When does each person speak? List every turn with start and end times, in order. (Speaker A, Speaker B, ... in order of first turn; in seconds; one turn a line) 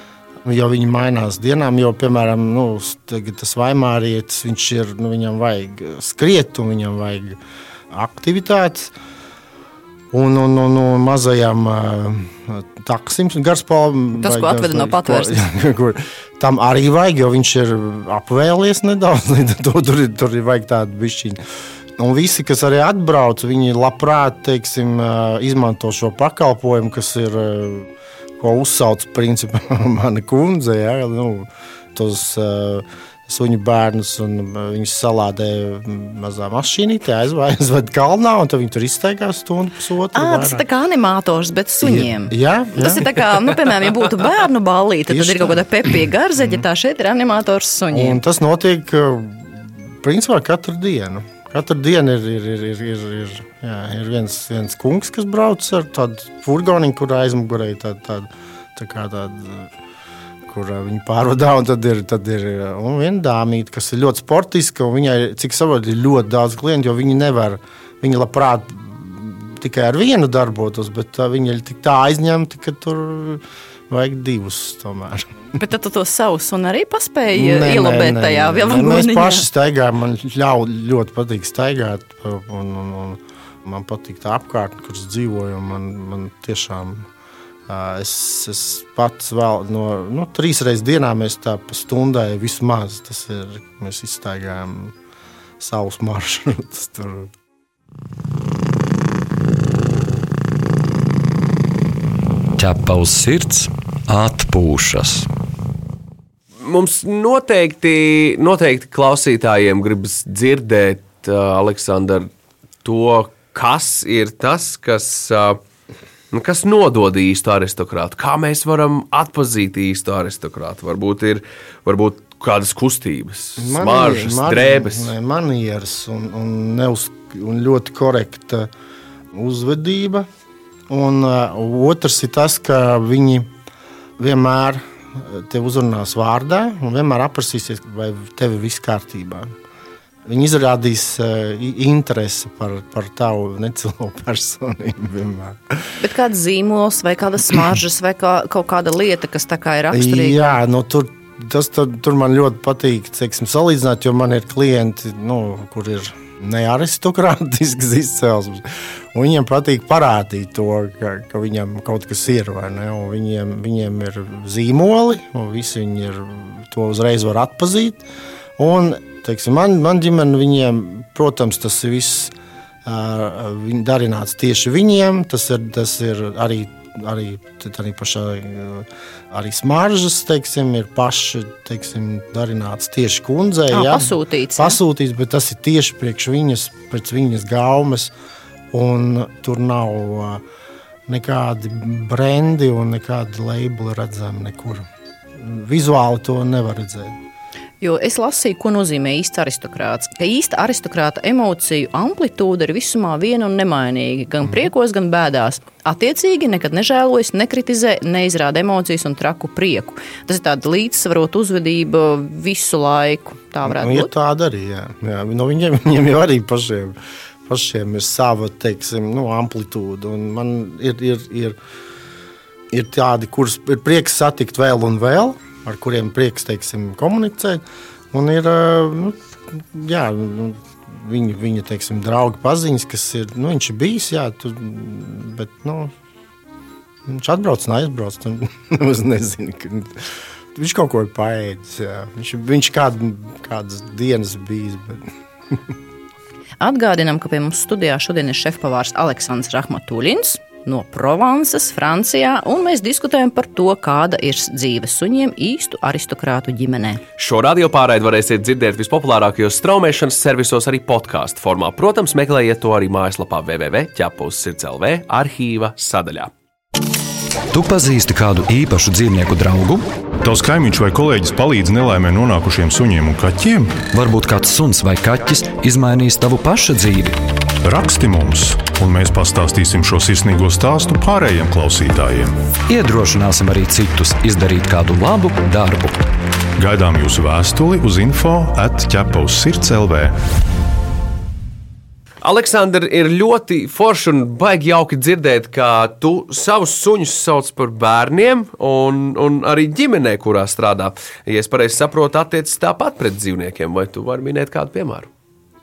Speaker A: 0.4-7.4
Speaker A: 7.9-8.9
Speaker A: 10.1-21.4
Speaker B: 14.1-15.5
Speaker A: 22.0-40.6
Speaker B: 40.1-48.2
Speaker A: 41.8-43.1
Speaker A: 45.1-45.6
Speaker A: 47.9-59.7
Speaker A: 60.5-75.3
Speaker B: 75.5-79.5
Speaker A: 77.3-87.1
Speaker A: 87.7-95.0
Speaker A: 95.6-97.3
Speaker C: 102.6-105.3
Speaker D: 106.6-112.3
Speaker D: 112.8-115.6
Speaker D: 116.3-125.1
Speaker A: 123.6-128.7
Speaker A: 129.3-130.3
Speaker A: 130.9-133.5
Speaker A: 134.2-139.5
Speaker A: 140.3-145.9
Speaker B: 146.0-150.6
Speaker A: 149.9-168.0
Speaker A: 168.6-188.1
Speaker B: 183.7-184.8
Speaker A: 188.7-190.4
Speaker A: 191.1-194.8
Speaker A: 195.4-197.2
Speaker B: 197.8-214.1
Speaker A: 213.7-221.6
Speaker A: 222.7-235.9
Speaker A: 237.1-245.6
Speaker B: 246.6-257.0
Speaker D: 257.2-266.3
Speaker C: 267.5-269.9
Speaker E: 270.2-273.9
Speaker C: 273.9-277.2
Speaker E: 277.6-282.4
Speaker C: 282.7-286.0
Speaker E: 286.6-290.2
Speaker D: 292.2-305.1